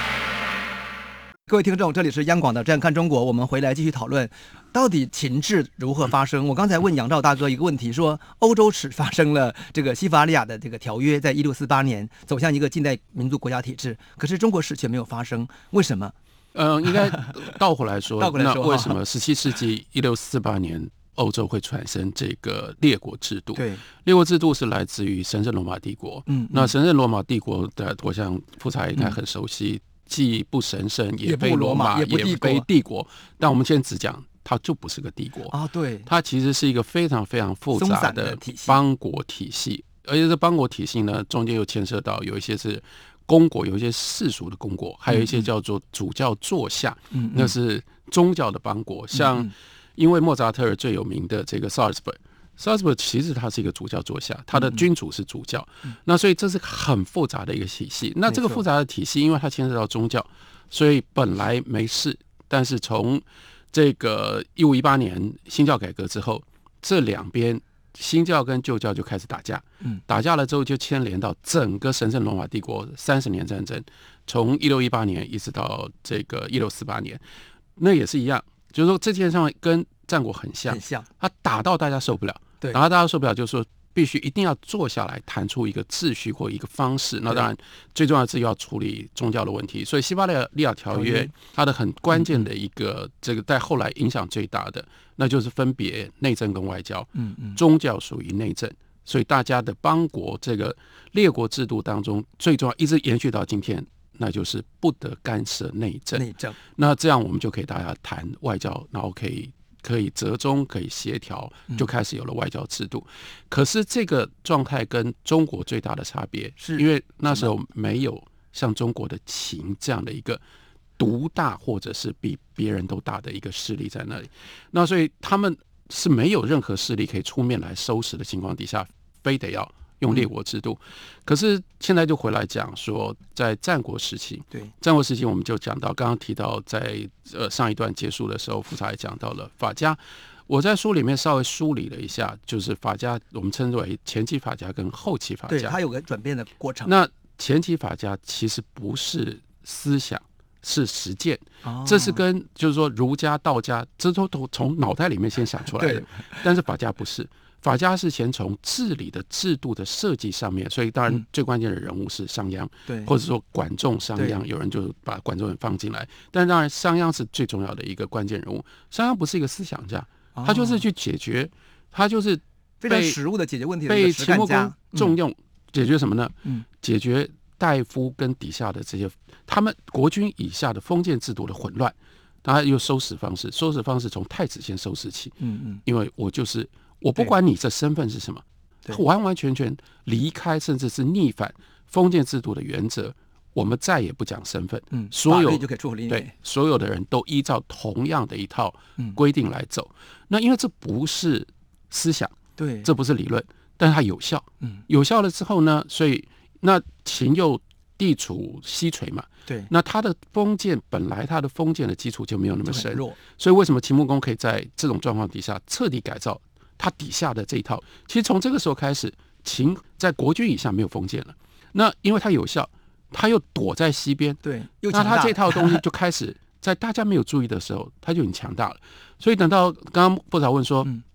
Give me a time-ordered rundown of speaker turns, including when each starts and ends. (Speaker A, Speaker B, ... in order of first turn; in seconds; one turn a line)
Speaker A: 1.5-16.1
Speaker B: 16.5-35.5
Speaker A: 17.1-17.4
Speaker A: 18.2-19.0
Speaker A: 23.6-23.8
Speaker A: 26.3-26.7
Speaker A: 31.2-32.7
Speaker A: 35.5-36.1
Speaker B: 36.1-77.2
Speaker A: 37.7-38.8
Speaker A: 45.1-45.5
Speaker A: 47.1-47.5
Speaker A: 49.1-49.5
Speaker A: 54.5-54.8
Speaker A: 58.3-58.6
Speaker B: 77.8-120.4
Speaker A: 80.7-81.1
Speaker A: 90.9-91.3
Speaker A: 92.1-92.5
Speaker A: 97.2-97.6
Speaker A: 106.1-106.6
Speaker A: 116.6-117.5
Speaker B: 121.0-145.8
Speaker A: 145.5-146.9
Speaker B: 146.8-173.2
Speaker A: 151.6-152.2
Speaker A: 155.8-156.4
Speaker A: 162.9-163.1
Speaker A: 170.4-170.8
Speaker A: 172.8-175.1
Speaker B: 173.9-185.3
Speaker A: 185.4-185.8
Speaker B: 185.8-224.4
Speaker A: 194.9-196.3
Speaker A: 202.6-202.9
Speaker A: 212.7-213.2
Speaker A: 224.4-225.8
Speaker B: 224.9-230.9